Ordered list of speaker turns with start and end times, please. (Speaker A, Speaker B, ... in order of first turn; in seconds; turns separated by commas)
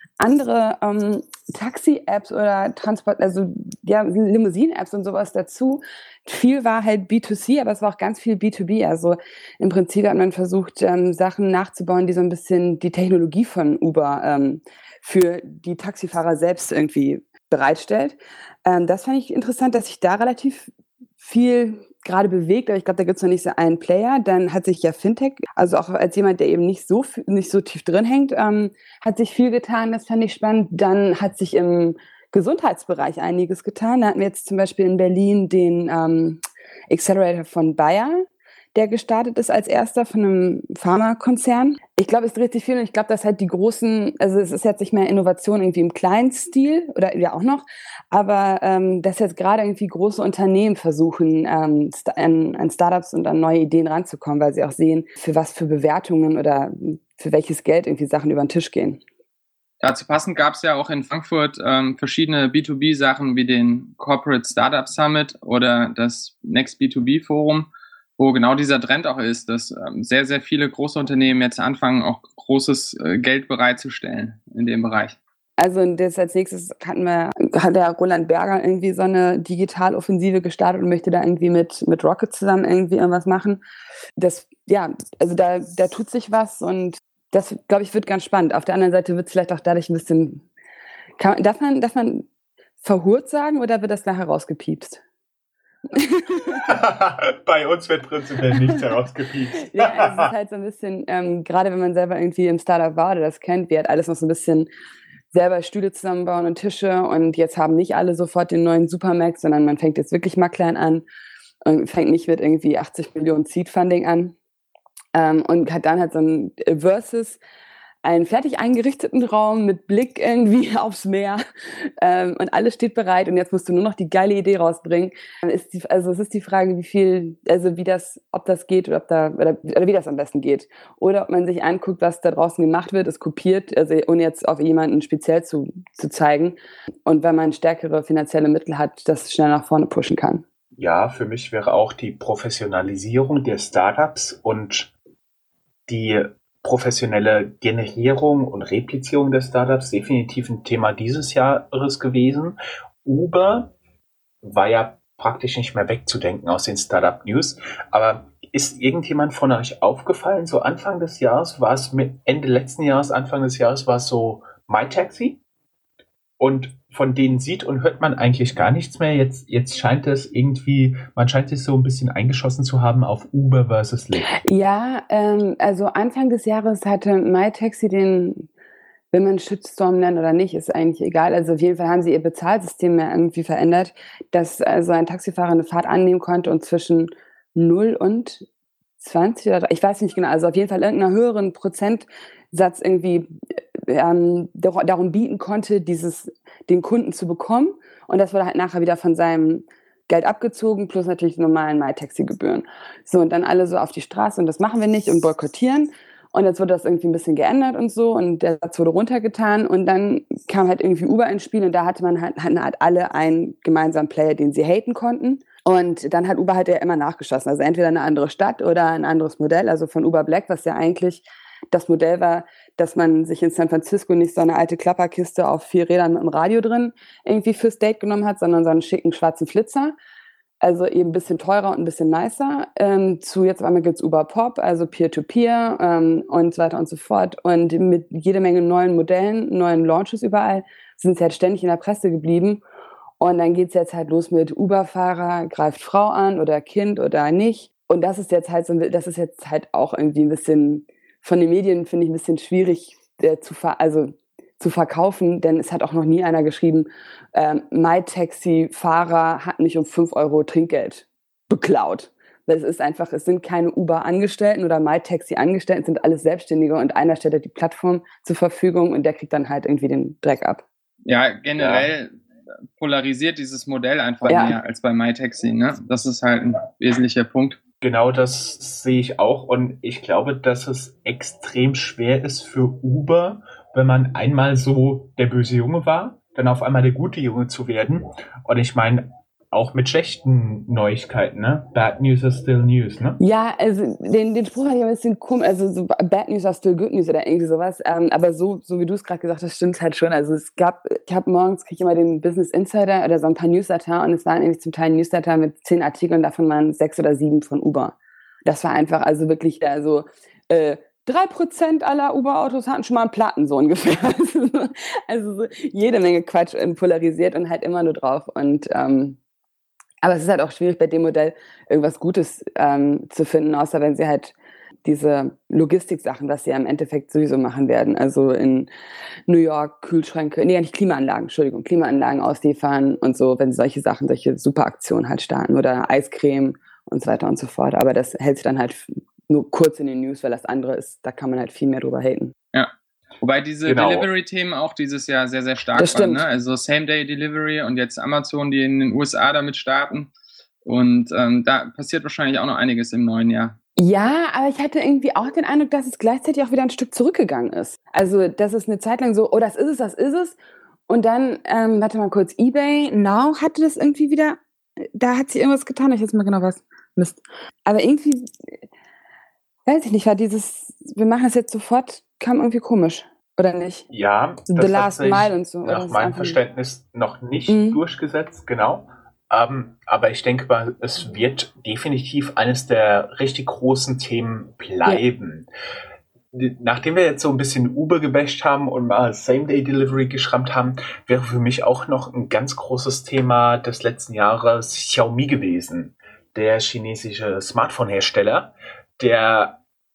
Speaker A: 0.2-59.0, Speaker B: 59.8-75.2, Speaker A: 75.6-83.6, Speaker A: 84.2-90.5, Speaker A: 91.2-92.3, Speaker A: 92.8-95.0, Speaker A: 95.9-96.7, Speaker C: 96.4-100.3, Speaker A: 99.6-104.7, Speaker A: 105.3-111.0, Speaker A: 111.6-114.3, Speaker A: 115.1-117.4, Speaker A: 118.0-140.4, Speaker C: 140.8-144.9, Speaker C: 145.9-153.7, Speaker C: 154.4-165.4, Speaker C: 166.4-174.3, Speaker A: 174.3-178.5, Speaker A: 179.1-188.4, Speaker A: 189.0-229.9, Speaker A: 230.6-242.6, Speaker A: 243.2-270.6, Speaker B: 271.0-272.1, Speaker C: 271.6-271.9, Speaker B: 272.8-277.6, Speaker A: 274.2-274.6, Speaker C: 277.8-293.2, Speaker A: 293.2-307.9, Speaker A: 308.4-319.2, Speaker A: 320.0-324.3, Speaker A: 324.8-328.7, Speaker A: 329.3-342.3, Speaker B: 343.2-350.1, Speaker C: 343.6-344.1, Speaker A: 345.8-346.2, Speaker B: 350.6-353.6, Speaker A: 353.8-360.4, Speaker A: 360.9-368.5, Speaker A: 369.6-373.9, Speaker C: 373.9-385.5, Speaker A: 374.5-376.4, Speaker A: 377.5-377.8, Speaker C: 386.3-399.6